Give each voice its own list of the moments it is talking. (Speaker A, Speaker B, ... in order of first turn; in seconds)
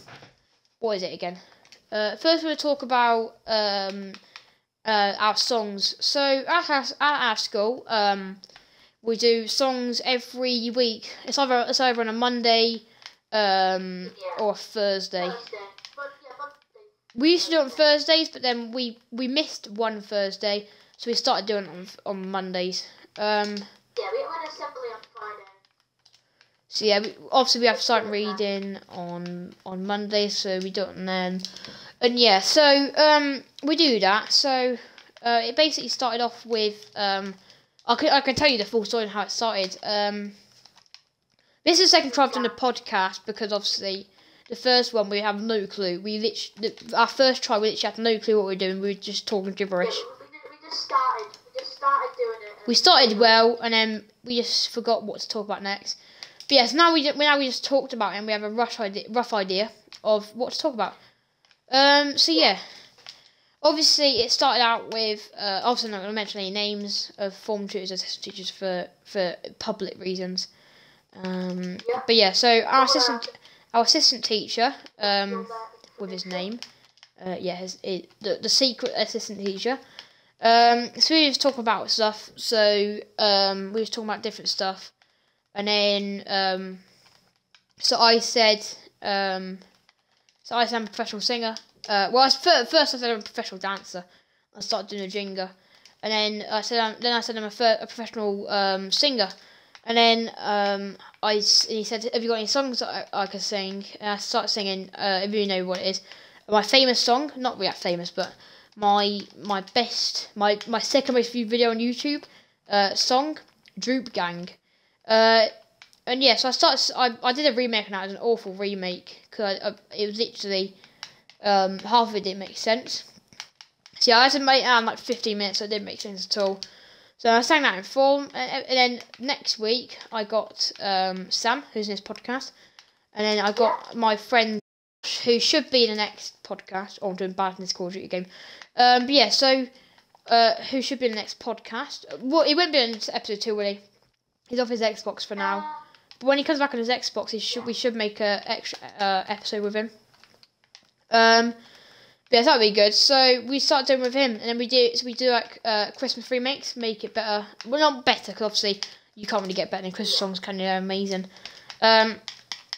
Speaker A: 0.8-4.2, 4.8-8.4, 9.0-15.4, 17.1-23.6, 26.7-31.4, 32.0-40.4, 41.6-50.0, 52.7-56.0, 56.5-61.0, 61.7-62.6, 63.6-70.5, 71.1-76.6, 77.2-79.8, 80.4-84.9, 85.5-86.8, 87.8-89.6, 90.4-99.3, 99.8-115.5, 116.1-120.8, 121.4-123.0, 124.0-126.6, 127.2-132.5, 133.1-139.7, 140.3-143.8, 144.5-145.6, 146.2-149.9, 151.1-151.6, 152.3-161.3, 161.8-162.2
Speaker B: 14.0-14.4, 15.2-17.9, 23.9-25.6, 27.7-28.4, 42.0-42.5, 49.8-53.4, 71.8-72.1, 72.7-73.3, 75.0-76.5, 133.6-133.8, 145.3-145.8